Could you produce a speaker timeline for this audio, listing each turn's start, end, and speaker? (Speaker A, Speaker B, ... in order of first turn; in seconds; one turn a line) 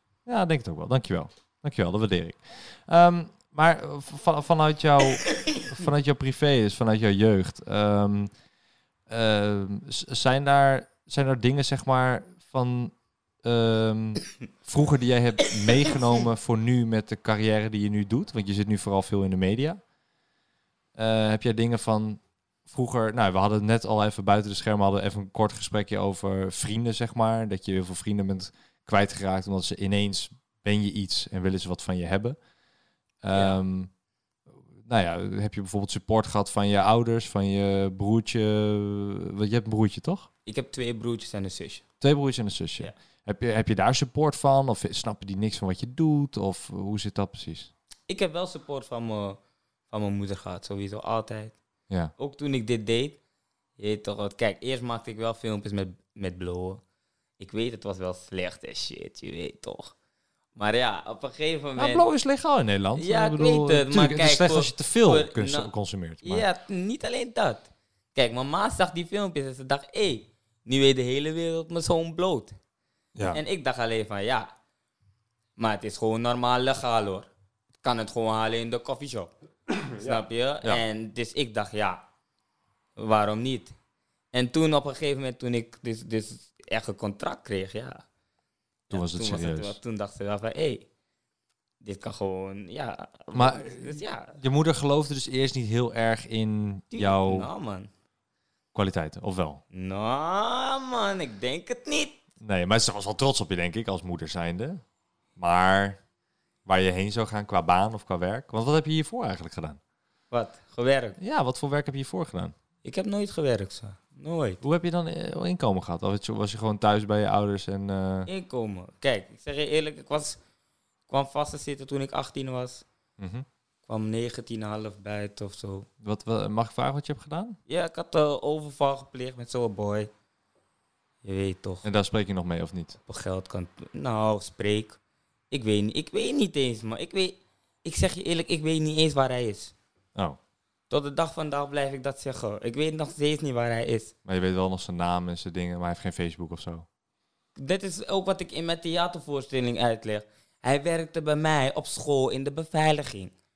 Speaker A: 0.2-8.3
Speaker A: 9.1-19.8
Speaker A: 20.9-32.4
Speaker A: 33.2-33.9
Speaker B: 33.3-33.6
Speaker A: 34.8-40.3
Speaker B: 40.5-41.8
Speaker A: 42.0-47.7
Speaker B: 48.1-49.4
Speaker B: 49.9-51.5
Speaker B: 52.2-53.2
Speaker B: 53.8-56.8
Speaker B: 57.4-59.9
Speaker B: 60.5-62.1
Speaker A: 61.8-66.5
Speaker B: 63.0-65.7
Speaker B: 66.2-72.5
Speaker A: 73.1-73.4
Speaker B: 73.3-74.5
Speaker B: 75.6-77.3
Speaker B: 77.8-79.3
Speaker B: 79.8-82.0
Speaker A: 80.0-80.8
Speaker B: 83.0-83.7
Speaker B: 84.3-88.0
Speaker B: 88.9-90.8
Speaker A: 88.9-89.8
Speaker B: 91.8-94.4
Speaker A: 93.3-97.5
Speaker B: 96.9-97.9
Speaker A: 98.7-99.6
Speaker B: 99.7-102.2
Speaker A: 102.4-104.8
Speaker A: 105.4-106.0
Speaker A: 106.7-109.8
Speaker B: 110.3-111.2
Speaker A: 111.2-112.5
Speaker B: 112.8-114.6
Speaker A: 114.6-118.3
Speaker B: 118.3-120.4
Speaker B: 121.1-122.8
Speaker A: 123.2-123.5
Speaker B: 123.8-125.9
Speaker A: 126.0-127.6
Speaker B: 127.7-130.1
Speaker B: 131.2-131.8
Speaker A: 131.8-133.0
Speaker B: 133.1-135.0
Speaker B: 135.5-139.7
Speaker B: 140.9-144.1
Speaker A: 144.2-146.8
Speaker B: 147.6-153.3